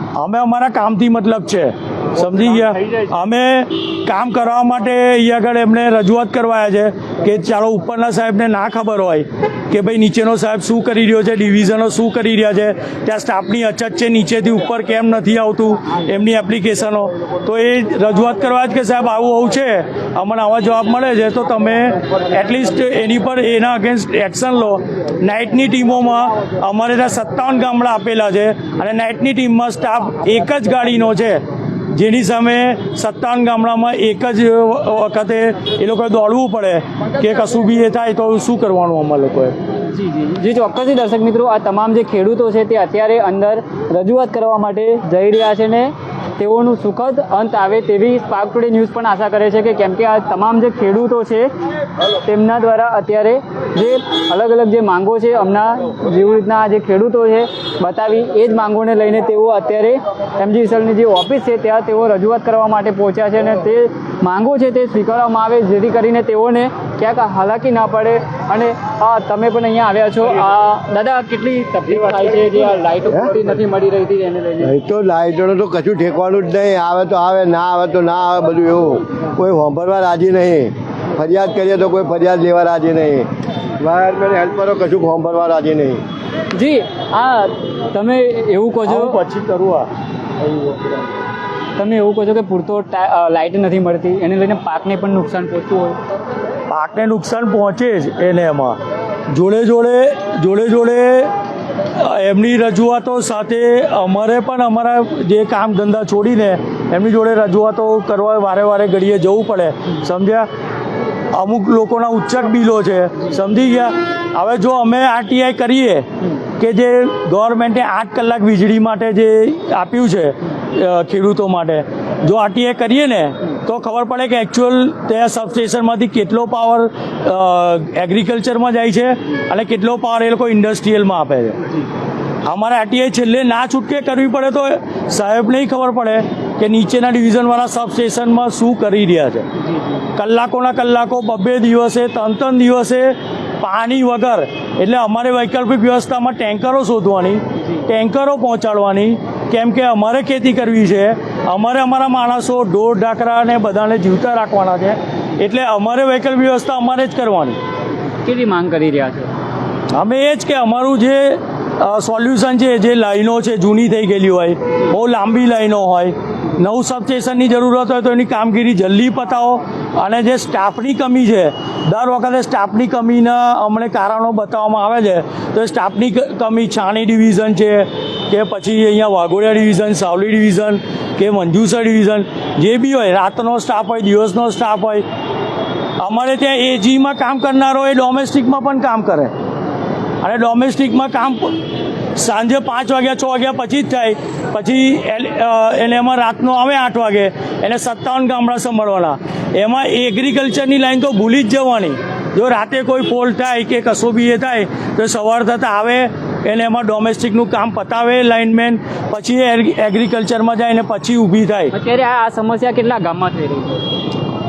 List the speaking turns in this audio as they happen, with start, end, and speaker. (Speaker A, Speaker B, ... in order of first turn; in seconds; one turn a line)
Speaker A: 0.2-31.4
Speaker A: 31.9-39.6
Speaker B: 39.8-51.5
Speaker B: 52.2-74.7
Speaker C: 74.6-83.3
Speaker C: 83.8-86.0
Speaker B: 86.5-89.2
Speaker A: 88.9-89.9
Speaker B: 91.8-96.0
Speaker A: 96.7-98.8
Speaker A: 99.3-101.3
Speaker A: 102.0-110.5
Speaker A: 111.3-116.1
Speaker A: 116.6-131.6
Speaker A: 132.5-139.5
Speaker A: 140.2-157.6
Speaker B: 158.2-159.3
Speaker A: 159.9-185.1
Speaker A: 186.0-189.3
Speaker A: 190.2-191.6
Speaker A: 192.2-211.7
Speaker B: 211.7-213.9